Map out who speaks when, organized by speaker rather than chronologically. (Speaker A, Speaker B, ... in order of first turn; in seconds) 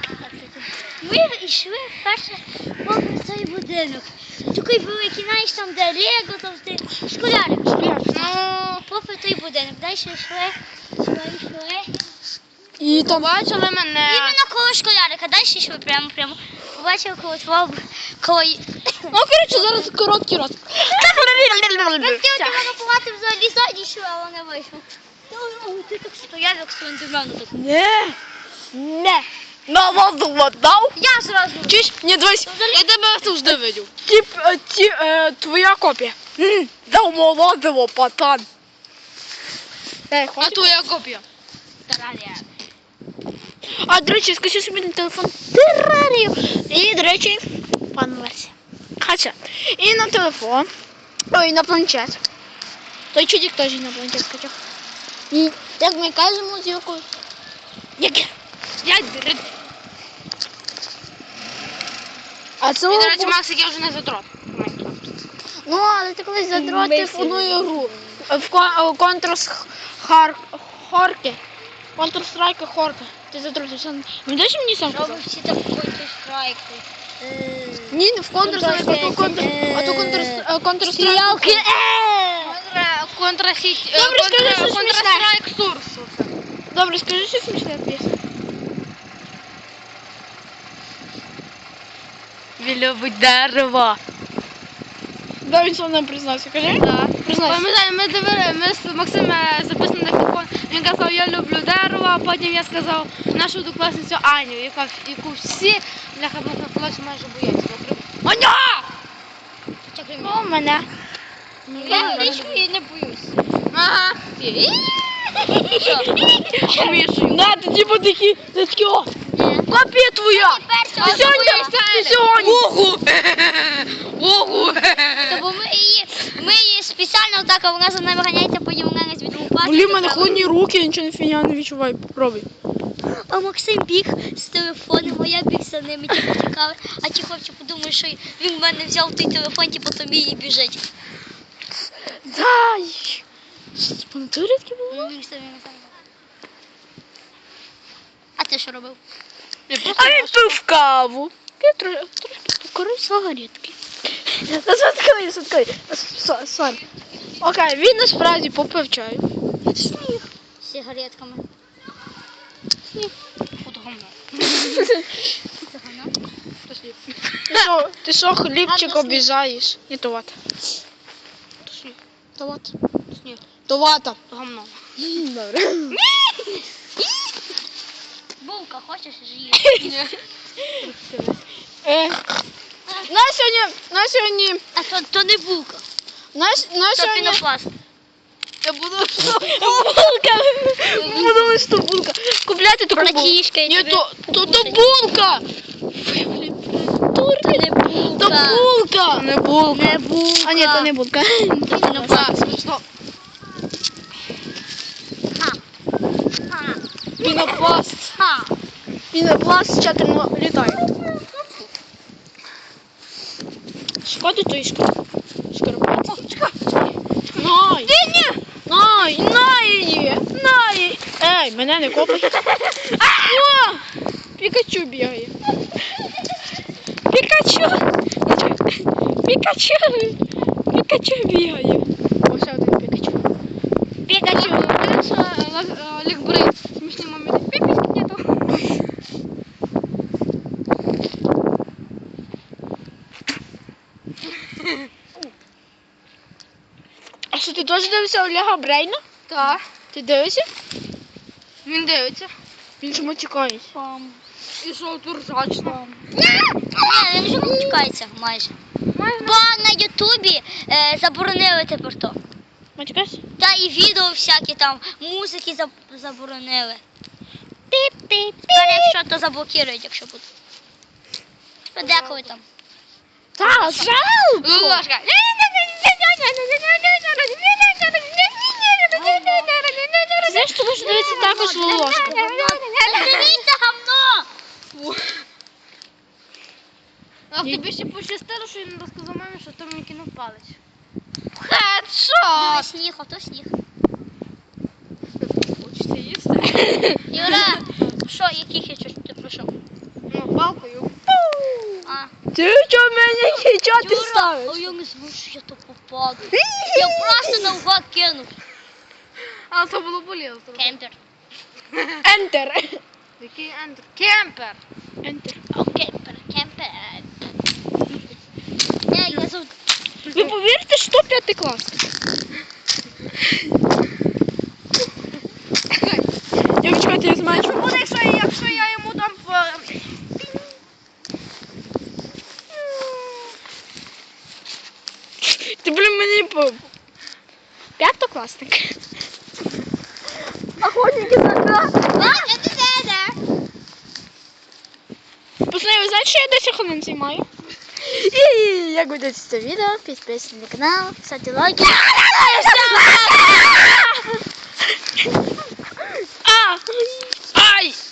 Speaker A: 0.2-11.9, 14.1-19.7, 20.9-27.5, 30.9-31.8, 32.4-32.9, 41.9-42.4, 66.5-68.2, 74.9-82.6, 109.9-110.5, 111.8-113.3, 115.4-117.0, 119.3-119.7, 120.3-121.8, 125.2-130.5, 133.1-140.8, 144.9-146.0, 148.4-149.0, 159.7-161.5, 165.6-166.1, 168.7-169.3, 178.4-180.0, 184.7-185.8, 186.9-187.7, 192.9-194.9, 197.4-198.7, 199.7-200.9, 201.7-202.6, 205.3-205.6, 206.5-208.6, 253.7-254.2, 255.7-256.1, 256.8-258.6, 259.2-262.2, 263.4-266.8, 268.5-270.2, 271.8-272.4, 278.9-279.6, 280.7-284.3, 292.3-293.5, 297.1-299.5, 301.9-302.1, 303.6-308.3, 310.6-311.0, 315.5-317.1, 318.9-319.5, 341.9-343.2, 351.6-353.6
Speaker B: 7.7-8.3, 12.8-13.4, 19.1-22.7, 27.5-28.2, 28.7-31.0, 31.7-32.5, 34.0-38.5, 40.1-40.8, 43.6-50.7, 51.3-52.2, 53.1-54.6, 55.3-57.1, 58.0-58.3, 62.6-63.4, 65.6-71.4, 72.0-75.2, 77.9-81.7, 83.9-85.3, 86.7-88.1, 95.4-97.6, 108.2-108.8, 110.4-110.9, 111.7-112.6, 115.5-119.1, 119.7-122.7, 129.6-132.5, 142.0-143.2, 143.8-145.1, 149.9-156.8, 157.4-159.2, 164.6-165.2, 167.5-170.3, 172.4-172.7, 173.7-174.2, 175.0-176.0, 179.6-179.9, 181.8-182.2, 183.0-184.6, 186.3-187.4, 189.2-199.4, 200.4-202.3, 207.2-208.1, 209.1-210.9, 214.0-215.0, 215.5-216.2, 217.3-217.9, 218.6-223.9, 224.4-225.3, 227.1-233.2, 234.1-234.8, 247.3-249.0, 249.9-250.5, 252.8-253.7, 262.8-263.2, 267.7-269.0, 273.4-274.8, 280.2-282.3, 302.3-304.7, 306.4-307.3, 312.0-312.8, 315.0-315.4, 320.1-321.9, 326.4-327.7, 335.2-336.7, 337.8-338.8, 340.6-342.0, 345.5-354.1, 356.2-357.8
Speaker C: 8.1-8.8, 12.9-14.4, 32.7-33.9, 40.4-41.2, 41.9-42.4, 58.8-59.5, 62.9-65.1, 82.4-86.3, 92.6-94.0, 96.8-108.2, 110.2-110.6, 111.7-112.7, 113.7-115.1, 116.7-117.5, 121.0-125.5, 149.7-150.6, 163.6-165.0, 166.7-167.7, 171.6-172.0, 173.1-173.4, 174.3-174.8, 179.8-180.2, 180.8-181.4, 188.6-190.1, 190.9-191.6, 199.1-200.0, 201.9-202.8, 216.1-216.6, 217.4-218.4, 234.1-238.6, 244.5-244.9, 249.3-249.6, 251.7-252.3, 254.6-255.8, 258.9-259.5, 271.8-272.4, 273.4-280.6, 282.0-283.5, 284.7-285.2, 287.3-290.6, 291.4-292.7, 295.2-297.6, 300.1-301.9, 309.2-310.8, 311.7-312.0, 313.2-314.6, 325.7-326.0, 327.3-330.3